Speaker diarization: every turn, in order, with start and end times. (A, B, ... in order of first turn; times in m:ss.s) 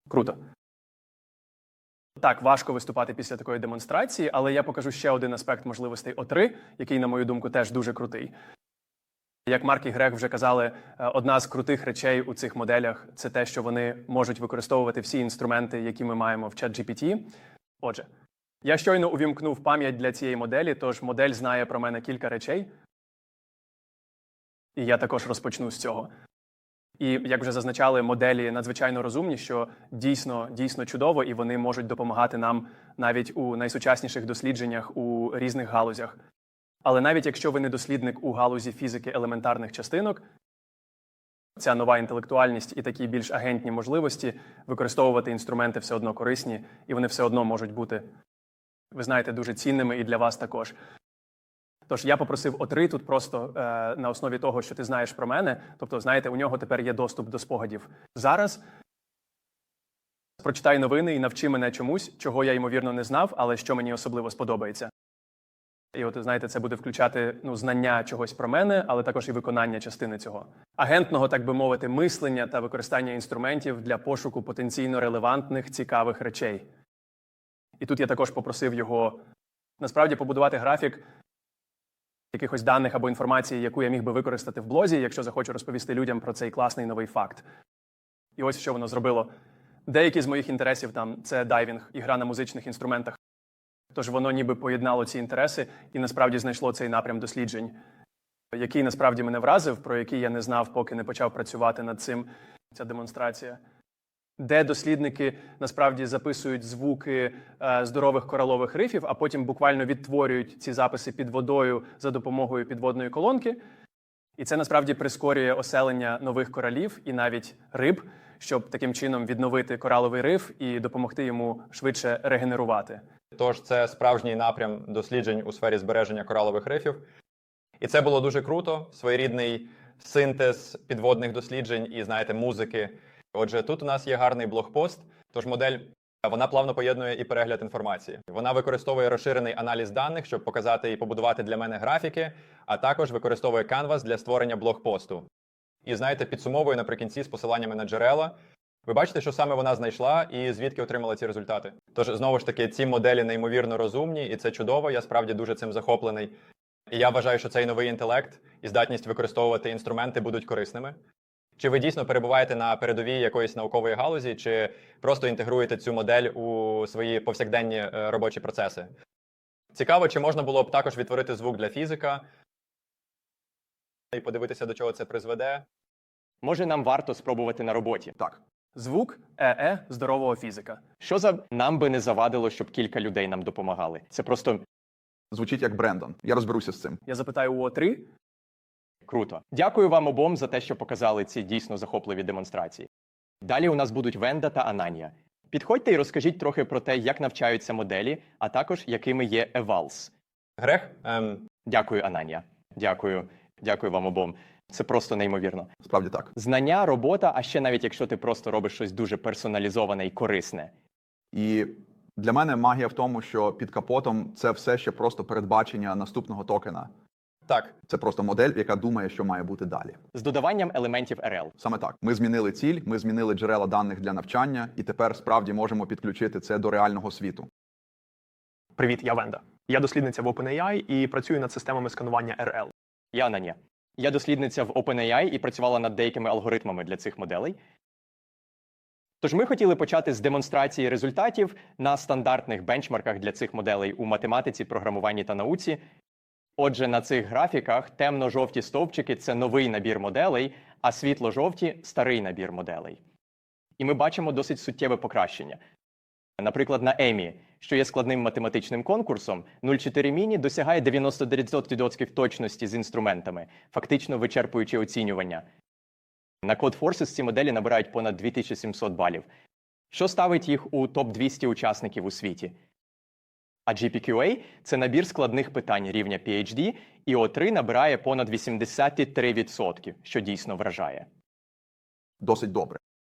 0:00.1-0:00.4 A
0:02.2-0:08.3 A
0:09.4-0:18.1 A
0:18.6-0:22.7 A
0:24.8-0:26.1 A
0:27.0-0:36.2 A
0:36.8-0:40.2 A
0:41.6-0:48.1 A
0:48.9-0:50.8 A
0:51.9-0:58.6 A
1:00.4-1:04.9 A
1:05.9-1:16.7 A
1:17.8-1:19.2 A
1:19.8-1:21.0 A
1:22.3-1:27.4 A
1:28.4-1:29.3 A
1:29.8-1:33.2 A
1:33.9-1:37.8 A
1:38.5-1:43.6 A
1:44.4-1:53.6 A
1:54.4-2:03.0 A
2:03.3-2:07.0 B
2:07.8-2:25.2 B
2:25.8-2:36.3 B
2:36.9-2:41.0 B
2:41.6-2:48.9 B
2:49.7-2:52.2 B
2:54.1-2:55.6 B
2:56.4-2:58.2 C
2:58.7-3:00.8 A
3:01.0-3:04.6 C
3:05.3-3:07.0 D
3:07.0-3:08.1 A
3:09.0-3:12.9 C
3:13.4-3:20.1 C
3:20.6-3:21.4 B
3:21.7-3:25.7 C
3:25.8-3:26.3 D
3:26.3-3:30.7 C
3:31.3-3:36.9 D
3:37.5-3:37.7 B
3:37.9-3:40.0 D
3:40.1-3:41.5 C
3:41.6-3:47.5 D
3:48.8-3:52.7 E
3:53.1-3:57.6 C
3:59.2-4:05.8 C
4:06.6-4:13.0 C
4:13.8-4:15.6 C
4:16.4-4:25.4 C
4:26.4-4:29.2 C
4:29.9-4:32.5 C
4:33.7-4:41.1 C
4:42.2-4:42.8 D